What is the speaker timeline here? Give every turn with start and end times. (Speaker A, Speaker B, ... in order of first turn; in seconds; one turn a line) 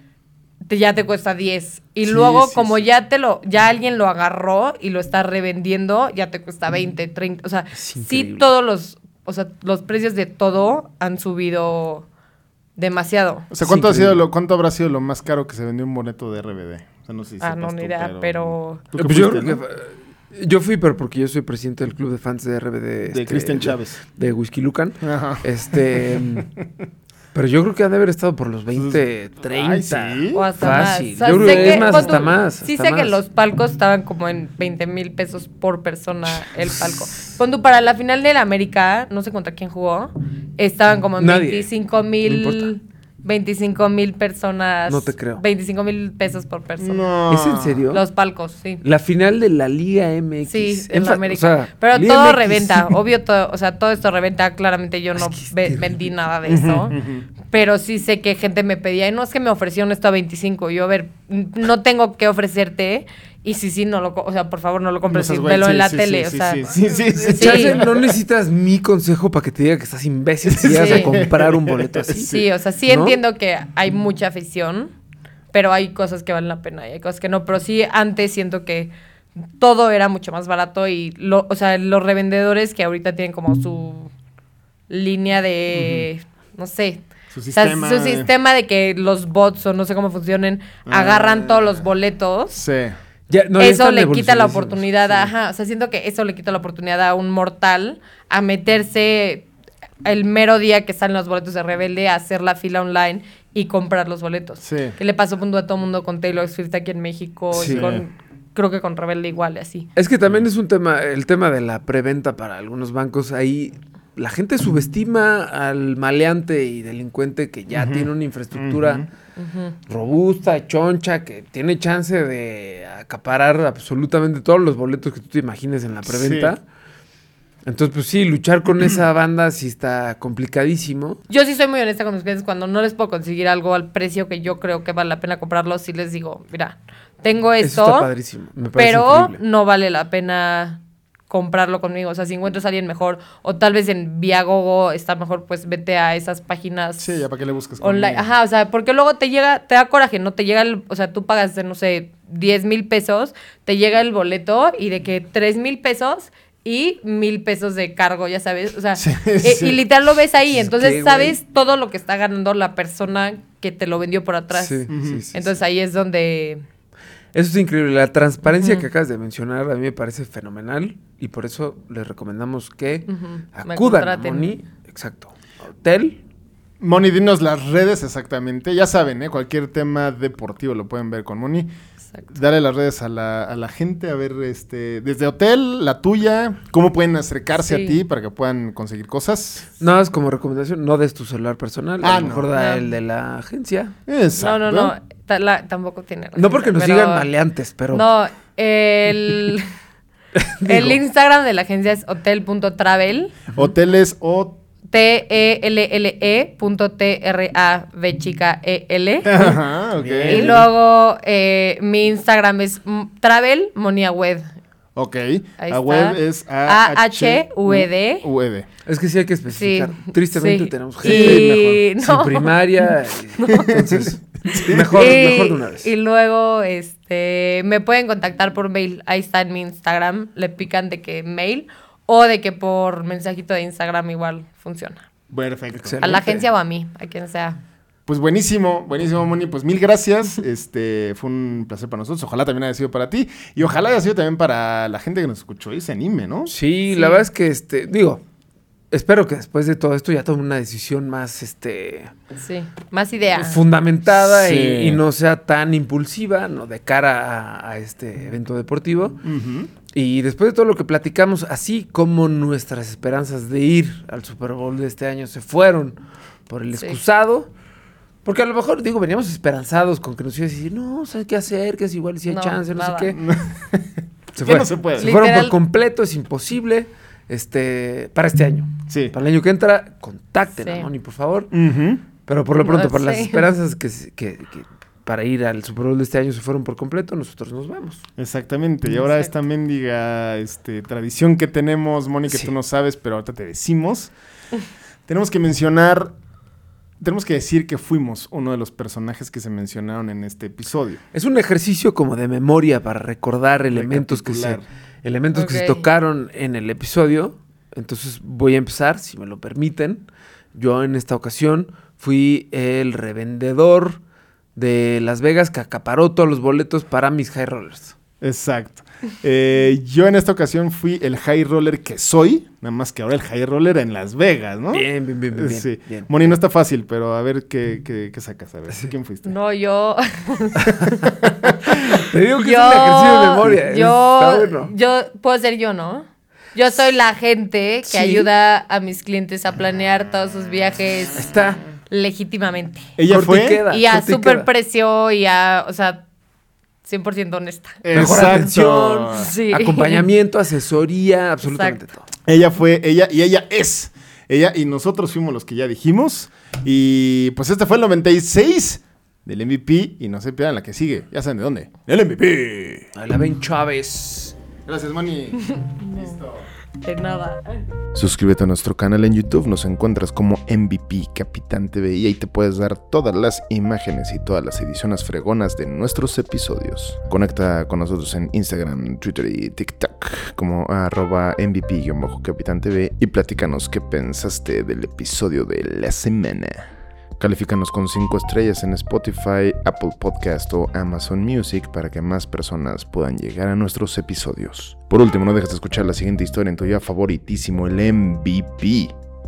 Speaker A: 0.6-12.1
Speaker B: 2.0-2.8
Speaker C: 7.7-8.4
Speaker A: 12.8-13.5
Speaker B: 13.5-19.6
Speaker C: 13.6-14.2
Speaker A: 17.4-18.8
Speaker C: 19.0-26.5
Speaker B: 23.1-24.0
Speaker B: 25.0-26.4
Speaker C: 27.3-33.2
Speaker B: 28.7-32.4
Speaker A: 30.3-47.0
Speaker C: 41.2-41.7
Speaker C: 42.2-42.7
Speaker C: 44.9-45.4
Speaker B: 46.8-47.9
Speaker C: 47.3-48.0
Speaker A: 47.9-48.8
Speaker C: 48.8-52.9
Speaker A: 50.4-57.0
Speaker C: 55.1-55.9
Speaker B: 56.5-57.3
Speaker A: 57.5-66.6
Speaker B: 65.1-68.2
Speaker C: 67.2-73.2
Speaker A: 67.3-67.8
Speaker B: 70.5-72.4
Speaker A: 70.7-71.1
Speaker A: 72.3-74.9
Speaker A: 75.5-78.9
Speaker A: 79.6-84.1
Speaker A: 84.9-92.6
Speaker B: 85.7-86.0
Speaker B: 87.3-88.3
Speaker B: 90.8-91.8
Speaker B: 92.5-93.0
Speaker C: 93.3-95.3
Speaker A: 93.6-99.5
Speaker A: 100.0-109.9
Speaker B: 104.6-105.0
Speaker B: 107.5-108.0
Speaker C: 107.5-107.9
Speaker C: 110.0-119.0
Speaker B: 117.7-119.1
Speaker A: 119.4-119.7
Speaker C: 119.9-126.6
Speaker B: 126.0-126.5
Speaker C: 127.6-131.2
Speaker B: 128.8-129.0
Speaker A: 131.3-138.1
Speaker C: 137.6-139.4
Speaker A: 138.7-147.2
Speaker B: 147.0-148.3
Speaker A: 147.8-166.6
Speaker B: 159.0-159.8
Speaker C: 160.5-161.4
Speaker C: 164.5-165.6
Speaker B: 164.9-165.2
Speaker C: 167.3-176.2
Speaker A: 168.5-168.9
Speaker A: 173.1-174.5
Speaker B: 176.8-181.7
Speaker B: 182.3-189.7
Speaker A: 187.7-188.0
Speaker C: 189.8-193.9
Speaker B: 192.0-192.5
Speaker A: 192.5-192.9
Speaker B: 194.1-194.9
Speaker A: 194.4-197.3
Speaker C: 196.4-198.1
Speaker A: 197.9-199.7
Speaker C: 200.4-201.0
Speaker A: 200.6-203.4
Speaker B: 203.5-204.6
Speaker A: 204.9-209.6
Speaker B: 209.2-210.6
Speaker C: 210.0-210.6
Speaker A: 210.3-214.5
Speaker B: 214.9-218.7
Speaker A: 215.6-218.2
Speaker C: 218.8-225.9
Speaker A: 219.5-222.5
Speaker B: 221.0-221.8
Speaker A: 223.4-223.7
Speaker B: 223.7-225.2
Speaker A: 224.9-235.0
Speaker B: 235.3-236.0
Speaker C: 235.7-236.5
Speaker A: 236.0-237.6
Speaker B: 238.1-246.5
Speaker C: 246.5-248.2
Speaker A: 246.9-247.2
Speaker C: 248.9-252.1
Speaker A: 252.4-253.6
Speaker C: 253.3-259.2
Speaker B: 254.1-255.0
Speaker B: 259.2-259.7
Speaker C: 259.9-266.0
Speaker C: 266.5-267.5
Speaker C: 268.2-273.2
Speaker A: 272.3-273.1
Speaker B: 273.1-275.1
Speaker C: 274.4-281.5
Speaker A: 275.0-275.5
Speaker B: 278.9-279.1
Speaker A: 280.6-280.9
Speaker B: 281.5-282.0
Speaker C: 282.2-288.0
Speaker A: 282.6-283.4
Speaker B: 288.2-294.1
Speaker A: 288.9-289.3
Speaker C: 292.3-292.5
Speaker B: 295.1-296.1
Speaker B: 297.0-301.0
Speaker C: 301.1-314.0
Speaker B: 303.7-304.6
Speaker A: 305.3-305.8
Speaker C: 314.6-317.9
Speaker B: 318.2-329.4
Speaker C: 324.7-326.3
Speaker A: 329.2-330.6
Speaker B: 330.8-331.8
Speaker C: 331.8-334.7
Speaker A: 332.4-341.3
Speaker C: 337.9-338.3
Speaker C: 341.1-341.6
Speaker A: 341.9-342.9
Speaker B: 343.0-343.6
Speaker C: 343.1-344.5
Speaker A: 343.7-346.0
Speaker A: 346.8-350.1
Speaker B: 347.8-349.3
Speaker C: 347.9-348.8
Speaker C: 349.5-352.1
Speaker A: 351.4-351.8
Speaker B: 352.2-362.9
Speaker C: 362.9-364.3
Speaker B: 364.6-366.5
Speaker A: 365.4-366.2
Speaker A: 366.8-367.6
Speaker B: 367.9-398.9